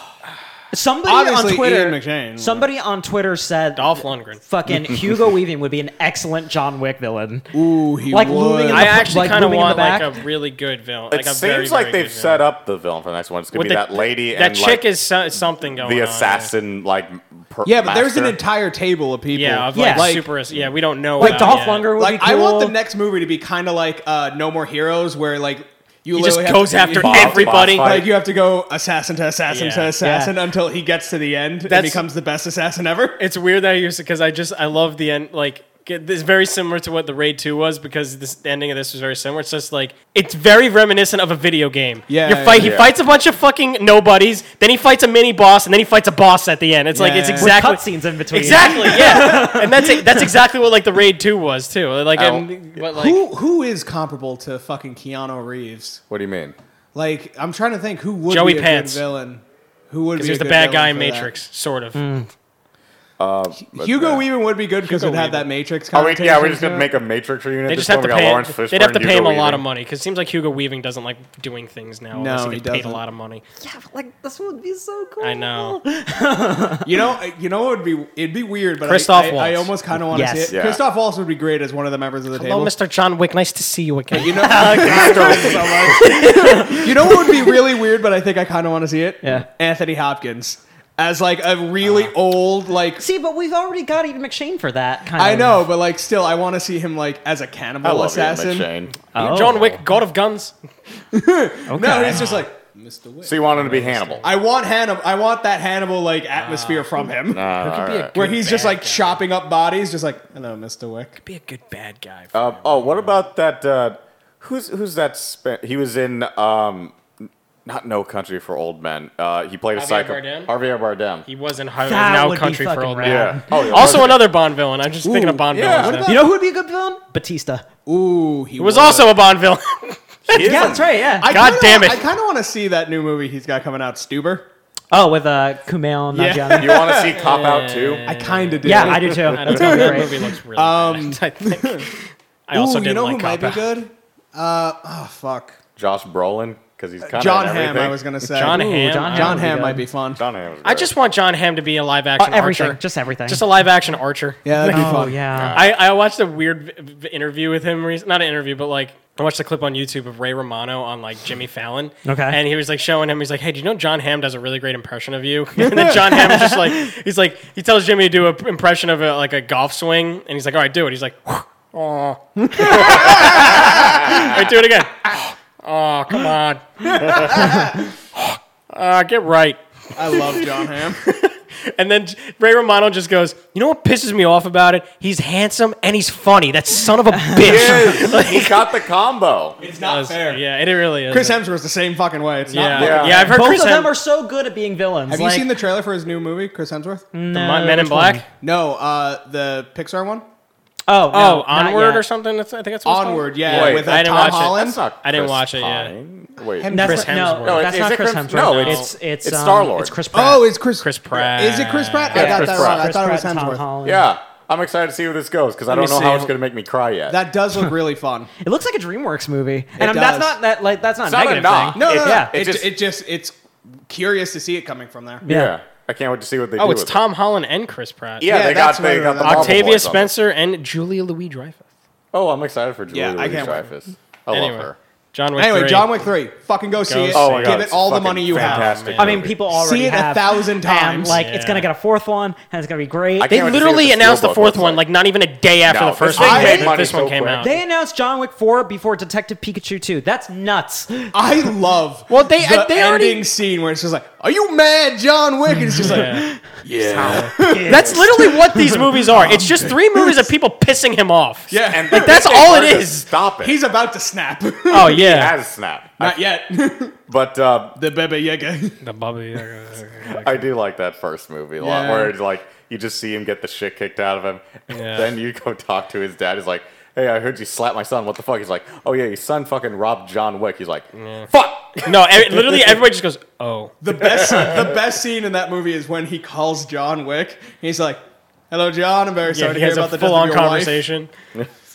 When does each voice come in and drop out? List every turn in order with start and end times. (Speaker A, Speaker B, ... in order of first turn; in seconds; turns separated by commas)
Speaker A: 0.7-7.5, Speaker B: 1.1-2.7, Speaker C: 3.8-4.4, Speaker B: 7.5-9.1, Speaker A: 8.1-10.2, Speaker C: 8.7-12.4, Speaker D: 11.1-14.9, Speaker C: 13.5-16.5, Speaker D: 15.7-18.4, Speaker B: 17.6-20.3, Speaker C: 19.3-21.9, Speaker A: 19.7-20.2, Speaker A: 21.2-22.8, Speaker B: 21.2-33.2, Speaker C: 26.1-28.1, Speaker D: 26.9-28.1, Speaker C: 29.5-30.0, Speaker A: 30.0-30.3, Speaker C: 31.7-32.0, Speaker C: 33.2-53.2, Speaker B: 42.1-42.7, Speaker D: 42.5-42.9, Speaker B: 46.9-47.6, Speaker A: 47.4-50.3, Speaker B: 48.7-49.4, Speaker D: 52.2-52.5, Speaker B: 52.9-56.0, Speaker D: 56.1-56.5, Speaker B: 56.9-61.3, Speaker C: 58.3-59.0, Speaker C: 60.2-62.0, Speaker A: 62.0-62.3, Speaker D: 63.2-64.2, Speaker B: 63.6-66.9, Speaker C: 64.8-65.5, Speaker D: 65.9-69.7, Speaker C: 67.7-73.4, Speaker B: 72.1-73.0, Speaker A: 73.6-76.9, Speaker C: 75.2-75.8, Speaker B: 76.8-82.7, Speaker C: 78.8-79.7, Speaker A: 80.1-80.5, Speaker D: 80.5-80.8, Speaker C: 82.3-84.7, Speaker B: 84.1-93.0, Speaker A: 84.2-87.5, Speaker D: 84.7-86.1, Speaker A: 93.0-95.7, Speaker B: 95.2-98.7, Speaker D: 97.8-99.0, Speaker C: 99.1-100.5, Speaker A: 99.1-99.8, Speaker B: 101.1-103.6, Speaker A: 101.7-102.3, Speaker C: 102.1-102.5, Speaker D: 103.2-104.3, Speaker C: 103.5-104.3, Speaker B: 104.2-107.5, Speaker C: 106.3-109.2, Speaker D: 107.3-108.2, Speaker B: 108.1-111.2, Speaker C: 111.2-113.2, Speaker D: 112.3-117.0, Speaker D: 117.7-121.3, Speaker C: 119.8-120.5, Speaker C: 121.2-126.2, Speaker A: 121.8-124.0, Speaker D: 123.0-124.3, Speaker B: 125.0-126.3, Speaker D: 125.5-126.1, Speaker A: 126.0-127.7, Speaker B: 127.9-129.2, Speaker C: 128.6-132.0, Speaker D: 130.3-130.9, Speaker A: 130.3-131.3, Speaker B: 130.4-134.5, Speaker A: 134.9-137.0, Speaker B: 136.1-137.4, Speaker D: 136.6-138.1, Speaker C: 137.1-143.7, Speaker B: 138.0-141.9, Speaker A: 138.6-140.1, Speaker B: 142.5-145.6, Speaker D: 145.8-148.0, Speaker B: 147.0-150.2, Speaker C: 148.3-149.5, Speaker A: 148.4-149.8, Speaker D: 150.1-150.9, Speaker C: 150.6-188.8, Speaker A: 152.2-153.4, Speaker B: 154.4-155.2, Speaker A: 154.7-155.6, Speaker D: 155.3-155.7, Speaker A: 162.1-162.4, Speaker B: 165.7-166.0, Speaker B: 172.4-174.3, Speaker D: 172.9-174.4, Speaker B: 176.9-177.8, Speaker B: 179.9-181.0, Speaker A: 187.3-187.8, Speaker D: 187.4-189.6, Speaker B: 189.6-190.4, Speaker C: 189.7-191.4, Speaker B: 191.1-193.3, Speaker C: 192.5-193.9, Speaker D: 192.7-193.4, Speaker A: 193.3-195.5, Speaker B: 195.1-197.1, Speaker A: 197.1-198.2, Speaker C: 197.3-198.2, Speaker B: 198.4-200.2, Speaker A: 200.9-202.1, Speaker C: 201.1-205.9, Speaker B: 202.9-204.8, Speaker D: 203.5-206.8, Speaker B: 206.5-207.1, Speaker A: 206.7-210.5, Speaker C: 206.7-207.8, Speaker D: 207.4-210.0, Speaker C: 208.3-208.9, Speaker B: 210.1-213.7, Speaker C: 210.8-212.4, Speaker D: 212.1-212.9, Speaker A: 212.2-214.1, Speaker D: 213.8-217.2, Speaker B: 215.7-216.3, Speaker B: 217.1-218.3, Speaker A: 218.4-222.4, Speaker B: 219.8-220.4, Speaker D: 221.1-222.7, Speaker B: 221.8-223.4, Speaker B: 223.9-225.2, Speaker D: 225.2-227.0, Speaker A: 225.3-225.5, Speaker C: 226.6-228.3, Speaker D: 228.2-230.1, Speaker B: 228.2-229.7, Speaker C: 229.2-231.7, Speaker D: 232.1-234.8, Speaker B: 232.9-233.7, Speaker C: 234.3-236.0, Speaker B: 235.4-238.9, Speaker C: 236.9-239.2, Speaker D: 237.1-239.4, Speaker A: 239.0-243.5, Speaker B: 239.5-241.2, Speaker C: 241.1-241.7, Speaker D: 243.2-244.8, Speaker C: 243.3-247.6, Speaker D: 245.7-247.5, Speaker B: 246.2-246.8, Speaker A: 247.4-251.1, Speaker B: 251.1-260.3, Speaker C: 252.1-253.3, Speaker A: 255.7-256.4, Speaker C: 255.8-256.3, Speaker D: 256.9-257.3, Speaker A: 257.0-258.5, Speaker C: 257.1-263.1, Speaker B: 261.5-262.3, Speaker D: 261.7-263.6, Speaker B: 263.4-265.0, Speaker C: 264.7-265.4, Speaker D: 264.8-266.2, Speaker B: 266.0-267.0, Speaker D: 267.1-267.8, Speaker B: 267.8-268.8, Speaker C: 268.8-270.5, Speaker D: 270.1-281.8, Speaker B: 271.6-272.1, Speaker C: 274.7-275.1, Speaker C: 280.9-283.7, Speaker B: 283.8-290.9, Speaker D: 284.3-284.7, Speaker C: 289.3-291.1